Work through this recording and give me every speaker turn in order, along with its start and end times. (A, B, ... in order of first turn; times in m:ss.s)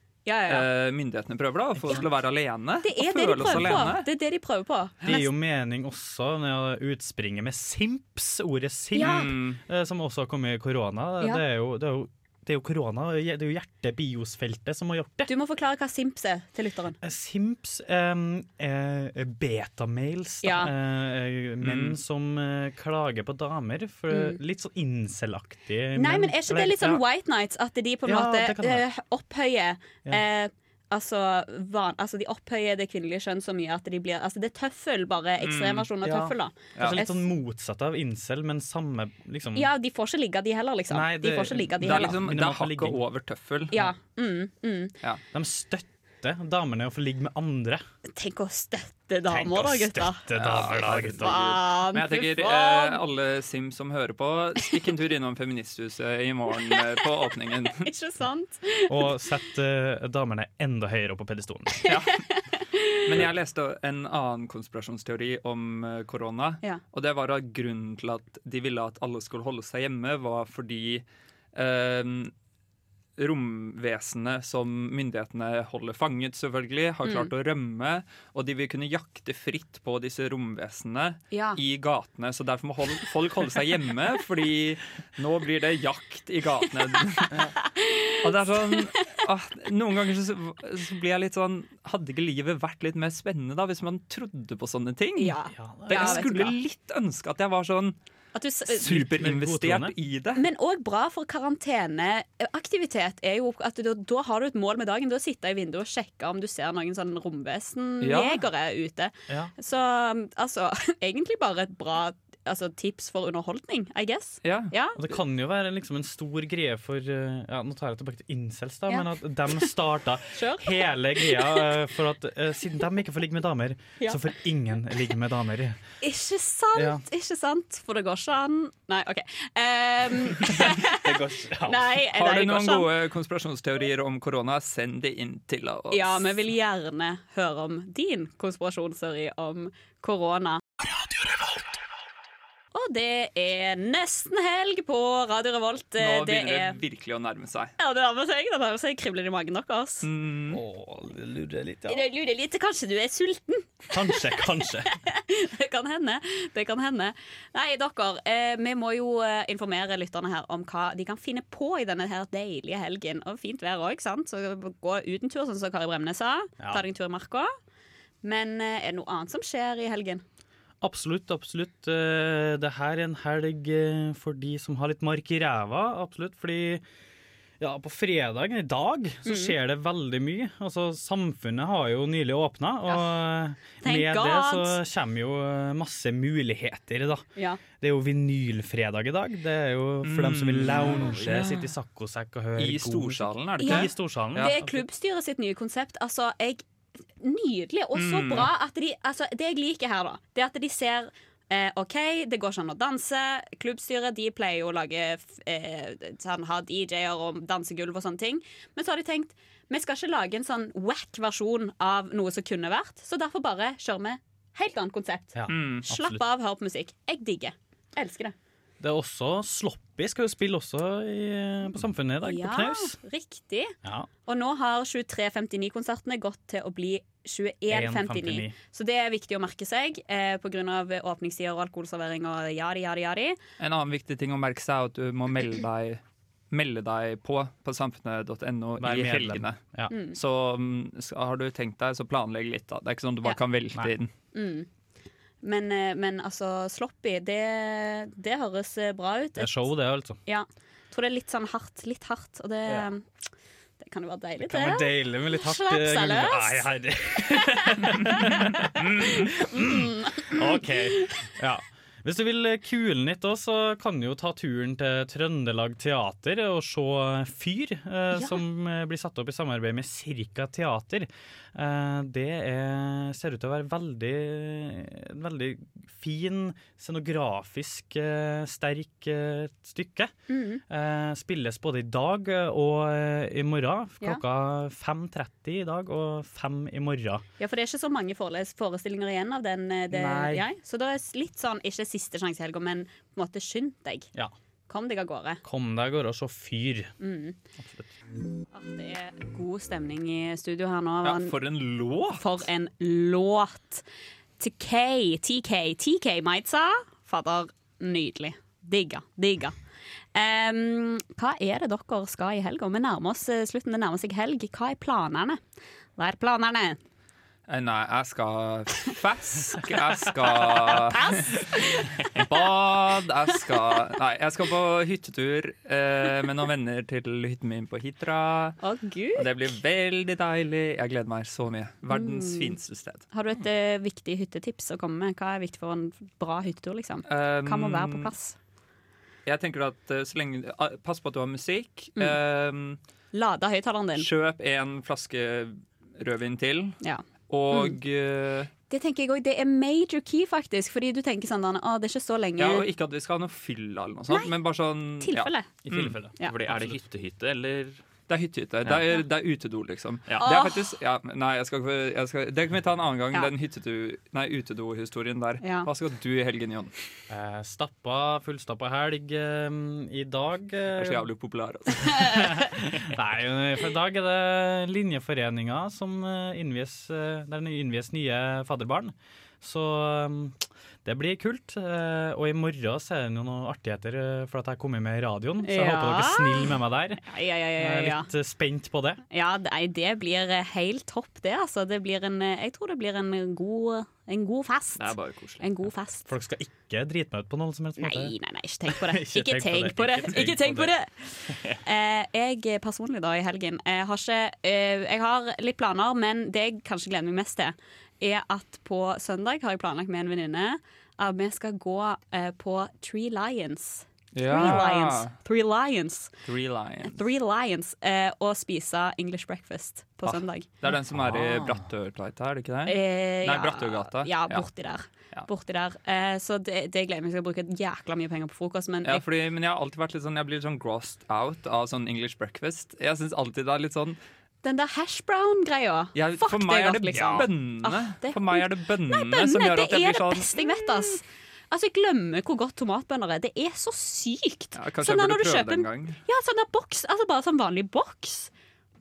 0:00.2-0:00.7 A
0:00.5-0:04.0 B
0:02.8-0:05.3 A
0:05.0-0:15.3 C
0:08.9-0:09.3 A
0:09.0-0:09.6 B
0:15.3-0:17.0 A
0:17.0-0:27.0 C
0:20.4-0:20.7 A
0:21.6-0:22.0 B
0:24.1-0:24.4 A
0:25.9-0:37.3 A
0:28.0-0:28.8 C
0:35.4-0:35.9 B
0:36.0-0:39.7 C
0:39.5-0:42.2 A
0:40.9-0:43.0 C
0:41.8-0:43.8 B
0:43.7-0:44.9 A
0:45.3-0:47.8 C
0:48.1-0:50.2 A
0:49.3-0:51.5 C
0:50.3-0:57.9 B
0:51.2-0:53.0 A
0:56.6-0:57.1 A
0:57.6-0:59.2 A
0:58.9-1:01.9 C
1:01.8-1:03.0 A
1:01.9-1:02.2 B
1:03.0-1:12.3 B
1:13.2-1:27.3 B
1:21.3-1:21.6 A
1:27.6-1:28.9 A
1:28.2-1:38.0 B
1:35.2-1:36.5 A
1:35.5-1:36.3 C
1:38.3-1:38.9 A
1:38.7-1:39.9 C
1:38.7-1:40.4 B
1:40.4-1:55.0 A
1:48.0-1:48.4 B
1:54.4-1:54.7 B
1:55.0-2:05.8 C
2:00.3-2:01.7 A
2:06.0-2:12.9 A
2:06.7-2:07.0 C
2:10.4-2:11.9 C
2:12.1-2:16.4 B
2:15.9-2:20.6 A
2:22.7-2:26.8 A
2:26.0-2:27.7 B
2:27.8-2:30.1 A
2:30.0-2:30.6 B
2:30.5-2:32.0 C
2:31.9-2:34.2 A
2:33.9-2:34.9 C
2:35.0-2:47.5 A
2:48.2-2:50.2 A
2:50.8-2:56.8 C
2:57.6-3:07.2 C
2:59.2-2:59.5 A
3:03.8-3:04.8 A
3:07.4-3:07.6 A
3:07.8-3:14.8 C
3:10.0-3:11.6 B
3:10.8-3:11.2 D
3:12.6-3:14.5 B
3:13.6-3:16.6 A
3:17.2-3:38.3 A
3:17.9-3:18.5 B
3:35.3-3:36.2 C
3:35.5-3:35.8 B
3:38.8-3:43.0 C
3:42.2-3:43.7 A
3:44.2-3:53.4 A
3:47.7-3:48.6 C
3:53.6-3:59.6 B
3:58.8-3:59.9 C
3:59.9-4:00.2 A
4:00.1-4:04.1 B
4:04.3-4:04.7 A
4:05.4-4:09.7 A
4:09.4-4:10.2 C
4:10.2-4:13.1 A
4:13.8-4:16.7 A
4:14.4-4:40.1 C
4:17.3-4:21.1 A
4:40.3-4:40.6 A
4:40.7-4:47.2 C
4:47.4-4:54.1 A
4:49.9-4:50.4 C
4:54.7-4:55.4 A
4:55.4-4:56.9 C
4:57.0-4:57.4 A
4:57.6-4:57.9 C
4:58.5-5:01.3 A
5:01.0-5:02.5 B
5:02.2-5:03.8 A
5:04.4-5:09.5 A
5:10.1-5:15.4 A
5:16.0-5:16.8 A
5:17.5-5:21.4 B
5:20.6-5:22.0 A
5:22.1-5:28.6 B
5:28.6-5:29.5 A
5:29.1-5:33.0 B
5:31.9-5:32.5 A
5:33.1-5:38.4 A
5:37.1-5:38.1 B
5:39.2-5:42.8 B
5:43.1-5:44.1 A
5:44.0-5:46.8 B
5:46.8-5:47.8 A
5:47.3-5:48.5 B
5:48.7-5:52.6 A
5:52.4-5:56.0 B
5:55.0-5:55.5 A
5:55.6-5:56.1 C
5:56.2-5:57.8 D
5:58.1-6:06.7 B
6:00.2-6:00.6 A
6:05.4-6:05.7 A
6:07.1-6:11.1 C
6:10.7-6:12.3 B
6:11.9-6:27.0 C
6:25.4-6:28.1 A
6:27.5-6:29.0 C
6:29.1-6:36.1 A
6:34.8-6:35.7 D
6:36.1-6:38.1 C
6:37.8-6:56.1 A
6:38.7-6:40.7 C
6:54.1-6:55.1 B
6:56.2-6:57.0 B
6:56.9-7:00.4 A
7:00.0-7:04.4 B
7:01.1-7:01.4 C
7:02.6-7:09.0 A
7:08.8-7:14.0 B
7:14.4-7:28.3 A
7:15.9-7:21.0 B
7:24.6-7:26.0 B